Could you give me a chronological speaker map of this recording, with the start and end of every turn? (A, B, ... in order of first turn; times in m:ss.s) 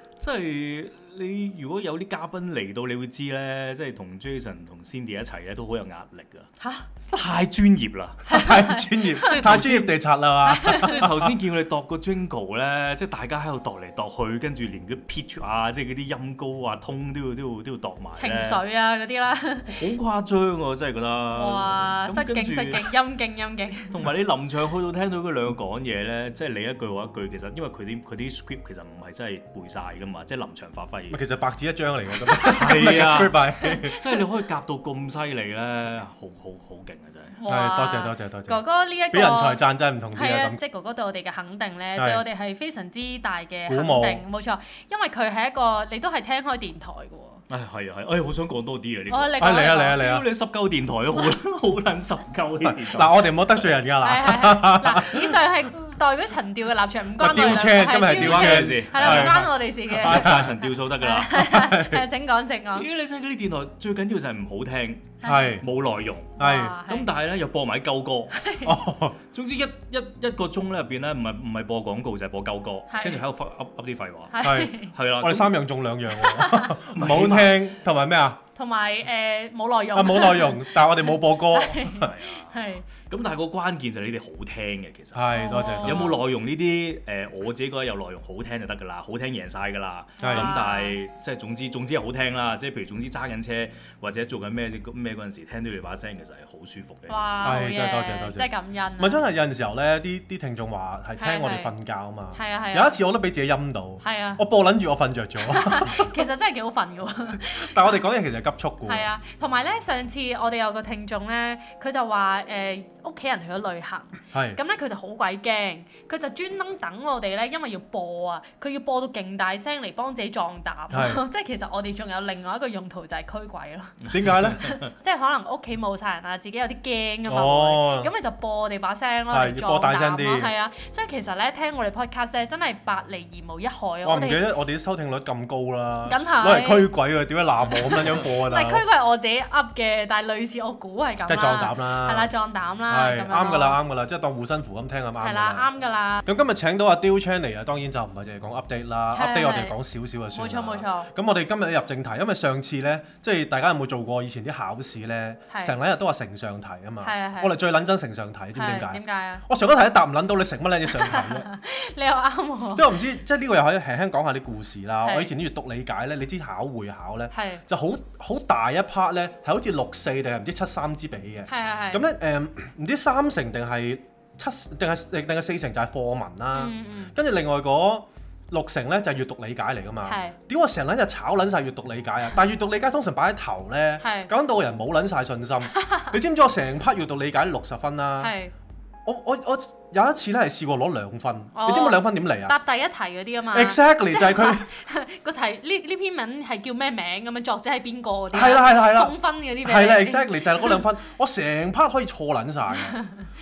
0:00.2-0:06.5 A
0:06.6-0:06.9 B
0:07.0-0:08.4 A
0:08.3-0:09.4 B
0:08.3-0:11.3 C
0:09.2-0:10.0 A
0:10.4-0:11.0 B
0:10.6-0:18.6 A
0:18.2-0:19.8 B
0:19.7-0:22.9 A
0:21.3-0:23.9 B
0:23.9-0:31.2 A
0:31.1-0:34.0 C
0:32.4-0:37.4 A
0:37.4-0:39.6 B
0:37.5-0:38.6 C
0:39.1-0:40.6 C
0:40.1-0:47.4 B
0:41.9-0:42.2 C
0:43.7-0:44.2 C
0:47.5-0:53.7 A
0:49.1-0:50.0 B
0:49.4-0:50.3 C
0:52.8-0:55.2 C
0:54.0-1:02.9 B
0:57.2-1:00.5 C
0:57.2-1:01.3 A
1:01.3-1:02.0 C
1:02.7-1:08.5 A
1:05.2-1:05.6 B
1:05.2-1:05.6 C
1:06.4-1:07.1 B
1:06.4-1:06.8 C
1:08.3-1:08.8 B
1:08.6-1:09.2 C
1:09.3-1:15.5 A
1:12.9-1:13.2 B
1:14.3-1:14.9 B
1:14.4-1:18.4 C
1:16.2-1:16.8 B
1:16.9-1:17.6 A
1:18.5-1:22.9 B
1:19.9-1:22.1 C
1:22.0-1:37.6 A
1:25.1-1:26.2 C
1:25.3-1:26.2 B
1:30.2-1:31.0 B
1:30.2-1:30.5 C
1:37.1-1:39.2 B
1:37.4-1:46.2 C
1:41.2-1:41.7 B
1:42.3-1:43.0 B
1:44.0-1:44.4 B
1:45.4-1:48.0 B
1:47.4-1:49.1 C
1:48.8-2:14.4 B
1:54.3-1:54.6 C
2:00.9-2:01.2 C
2:04.1-2:04.7 C
2:07.3-2:08.1 C
2:09.3-2:10.5 C
2:14.0-2:18.8 C
2:16.1-2:16.9 B
2:17.7-2:23.8 B
2:21.3-2:22.3 C
2:22.9-2:25.7 C
2:25.2-2:26.2 B
2:26.2-2:41.5 C
2:29.1-2:29.8 B
2:30.3-2:31.1 B
2:35.5-2:35.8 B
2:37.0-2:37.6 B
2:38.5-2:39.4 B
2:40.9-2:42.9 B
2:42.7-3:08.3 C
2:45.0-2:45.3 B
2:47.3-2:47.6 B
2:51.5-2:52.0 B
2:56.5-2:57.1 B
3:00.0-3:00.4 B
3:04.0-3:04.3 B
3:05.7-3:06.1 B
3:08.2-3:08.5 B
3:09.0-3:12.5 C
3:11.5-3:20.8 B
3:13.5-3:14.7 C
3:18.3-3:23.0 C